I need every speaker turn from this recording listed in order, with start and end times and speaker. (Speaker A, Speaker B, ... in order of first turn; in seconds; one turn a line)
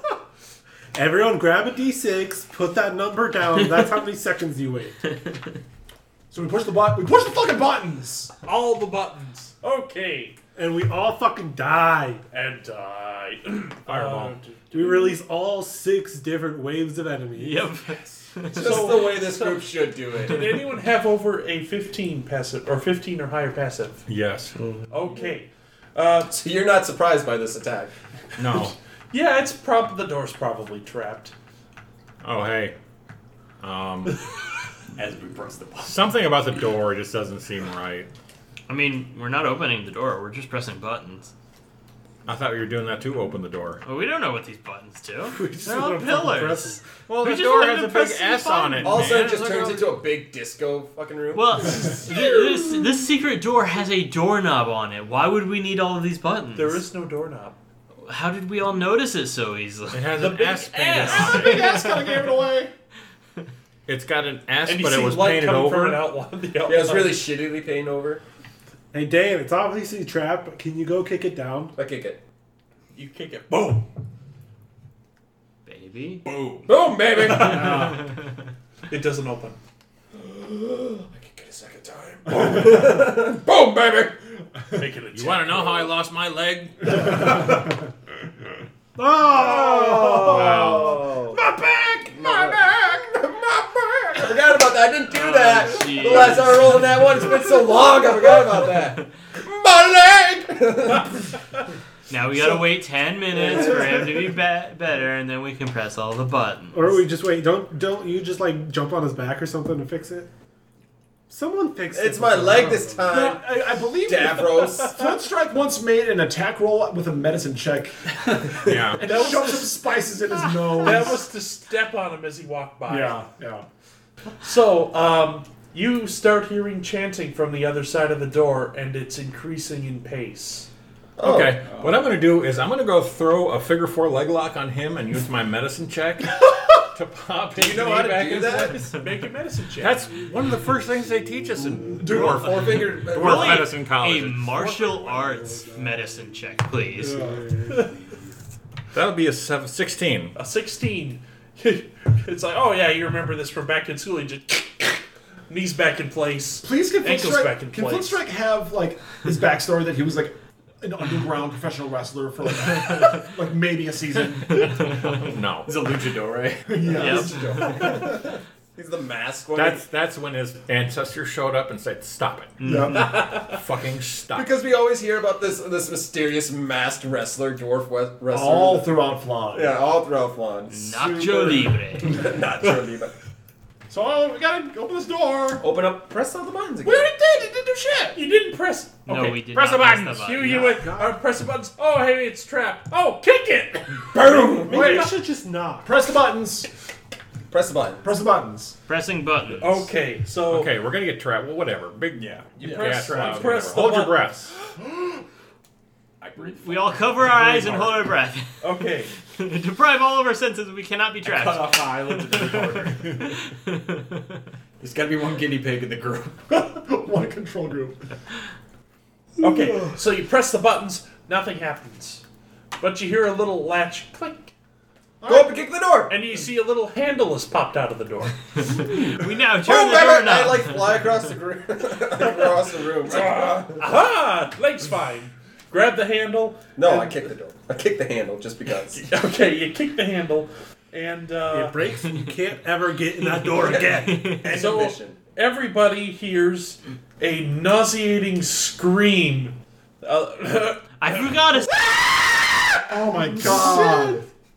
Speaker A: 0.9-5.0
Speaker B: 6.3-8.3
Speaker C: 8.4-10.4
Speaker A: 10.6-12.2
Speaker C: 12.3-15.2
Speaker D: 13.9-14.4
Speaker A: 14.7-17.7
Speaker E: 17.3-19.0
Speaker F: 18.5-20.6
Speaker C: 18.5-24.0
Speaker D: 24.1-24.5
Speaker C: 24.9-26.4
Speaker F: 26.4-27.9
Speaker D: 28.4-28.8
Speaker C: 29.1-31.3
Speaker D: 32.2-32.8
Speaker D: 33.6-34.2
Speaker G: 35.0-36.0
Speaker D: 35.9-38.1
Speaker E: 38.7-41.3
Speaker D: 42.3-43.8
Speaker E: 43.8-49.3
Speaker A: 45.4-46.8
Speaker D: 47.1-49.7
Speaker F: 48.8-51.8
Speaker E: 51.3-56.8
Speaker B: 52.0-52.3
Speaker C: 56.5-57.6
Speaker E: 58.0-60.3
Speaker D: 59.9-61.7
Speaker C: 60.2-61.9
Speaker B: 61.0-62.7
Speaker D: 63.9-66.0
Speaker C: 64.7-67.2
Speaker F: 66.7-68.2
Speaker A: 68.9-71.7
Speaker F: 71.8-72.2
Speaker C: 72.9-73.9
Speaker E: 75.7-76.2
Speaker G: 76.3-76.7
Speaker F: 76.7-78.0
Speaker B: 77.4-78.0
Speaker C: 78.9-79.6
Speaker F: 80.1-84.2
Speaker C: 84.7-85.9
Speaker D: 85.1-87.5
Speaker A: 89.0-90.4
Speaker B: 89.2-93.1
Speaker F: 89.3-91.4
Speaker D: 90.3-91.0
Speaker F: 92.1-101.3
Speaker E: 95.1-97.0
Speaker E: 102.1-107.0
Speaker F: 103.3-104.1
Speaker A: 106.7-110.3
Speaker A: 111.3-113.2
Speaker F: 111.9-115.0
Speaker B: 113.0-121.2
Speaker C: 114.6-115.2
Speaker D: 118.7-119.1
Speaker C: 118.9-120.0
Speaker C: 120.8-123.2
Speaker B: 122.9-123.7
Speaker C: 124.4-130.7
Speaker F: 131.2-131.6
Speaker D: 131.2-138.9
Speaker G: 131.7-131.9
Speaker F: 137.5-138.9
Speaker C: 138.9-140.1
Speaker D: 139.8-144.7
Speaker F: 142.0-143.7
Speaker B: 142.2-142.4
Speaker E: 143.1-147.2
Speaker A: 145.1-146.0
Speaker A: 147.0-148.0
Speaker B: 147.0-147.4
Speaker C: 147.7-147.9
Speaker D: 148.9-150.4
Speaker C: 150.3-158.2
Speaker B: 156.6-165.1
Speaker D: 165.2-165.7
Speaker G: 165.6-167.1
Speaker B: 166.7-168.1
Speaker F: 166.9-169.8
Speaker E: 166.9-167.4
Speaker D: 169.5-172.6
Speaker B: 172.6-173.1
Speaker E: 172.6-173.4
Speaker D: 173.3-174.5
Speaker F: 174.3-180.9
Speaker B: 178.3-179.8
Speaker E: 180.7-182.2
Speaker B: 181.0-181.8
Speaker F: 182.0-183.1
Speaker B: 183.9-185.6
Speaker F: 185.6-187.1
Speaker B: 186.8-188.2
Speaker C: 188.1-189.5
Speaker E: 189.1-190.8
Speaker D: 189.6-190.2
Speaker C: 190.1-195.1
Speaker A: 190.4-191.2
Speaker F: 194.1-195.1
Speaker A: 194.3-195.9
Speaker B: 194.6-195.1
Speaker B: 195.8-196.7
Speaker F: 197.5-198.1
Speaker B: 198.0-198.8
Speaker E: 198.9-199.8
Speaker C: 199.6-200.7
Speaker D: 200.5-204.5
Speaker G: 202.1-203.7
Speaker C: 202.6-204.2
Speaker B: 204.8-205.2
Speaker G: 206.2-208.1
Speaker E: 206.6-208.5
Speaker C: 208.6-209.1
Speaker E: 209.3-214.2
Speaker G: 211.2-213.3
Speaker G: 214.8-216.4
Speaker B: 216.5-218.1
Speaker C: 219.4-222.2
Speaker A: 219.4-219.9
Speaker C: 222.8-224.5
Speaker B: 225.2-225.7
Speaker F: 225.3-226.2
Speaker C: 226.1-228.8
Speaker F: 228.8-233.8
Speaker E: 228.8-231.1
Speaker C: 233.0-237.3
Speaker F: 236.8-239.0
Speaker C: 238.9-241.8
Speaker A: 241.5-244.4
Speaker E: 243.2-244.5
Speaker F: 243.6-245.2
Speaker C: 244.4-251.4
Speaker E: 251.0-251.7
Speaker B: 252.9-254.3
Speaker A: 253.3-254.2